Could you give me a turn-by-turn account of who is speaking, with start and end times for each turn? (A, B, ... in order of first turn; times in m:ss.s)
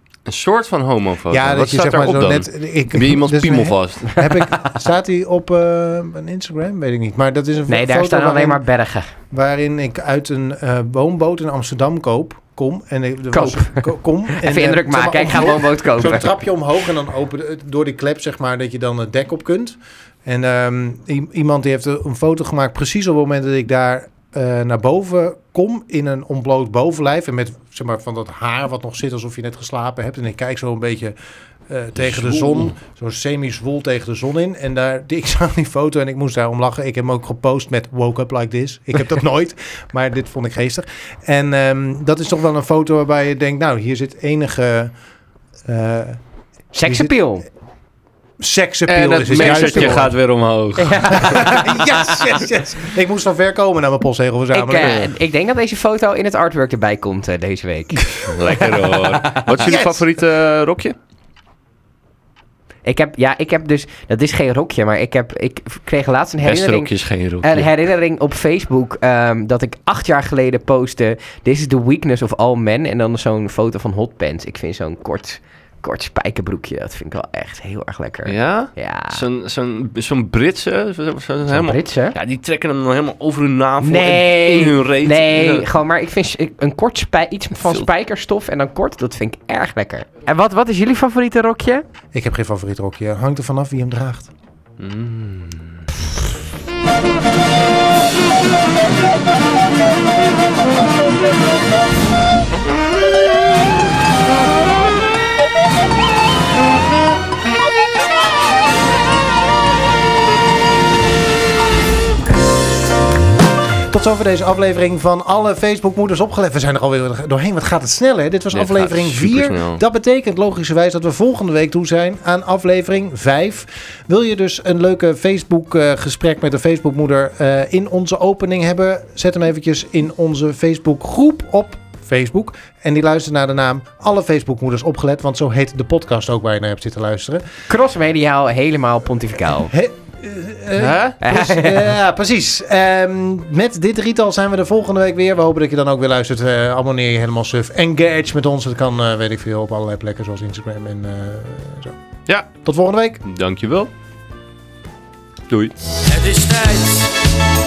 0:00.3-0:04.2 A
0:01.3-0:08.6 B
0:07.7-0:09.1 C
0:09.3-0:31.2 B
0:13.3-0:16.3 C
0:31.7-0:44.9 B
0:32.0-0:32.7 A
0:45.7-0:46.2 B
0:46.7-0:47.5 C
0:46.9-0:47.1 B
0:48.4-0:50.2 B
0:48.9-0:51.5 A
0:49.5-0:50.0 C
0:50.8-0:52.5 C
0:51.1-0:55.1 B
0:54.5-0:59.7 C
0:58.2-1:01.0 A
0:59.6-1:00.0 B
1:02.8-1:19.2 C
1:06.4-1:07.7 A
1:18.3-1:25.7 A
1:21.5-1:22.2 C
1:23.8-1:31.8 C
1:32.1-1:34.3 B
1:34.8-1:35.8 A
1:53.9-2:17.4 B
1:58.5-1:59.8 A
2:17.7-2:19.7 C
2:19.7-2:32.0 B
2:20.8-2:21.1 A
2:21.2-2:21.8 C
2:32.6-2:33.2 B
2:33.2-2:33.9 A
2:35.5-2:37.2 A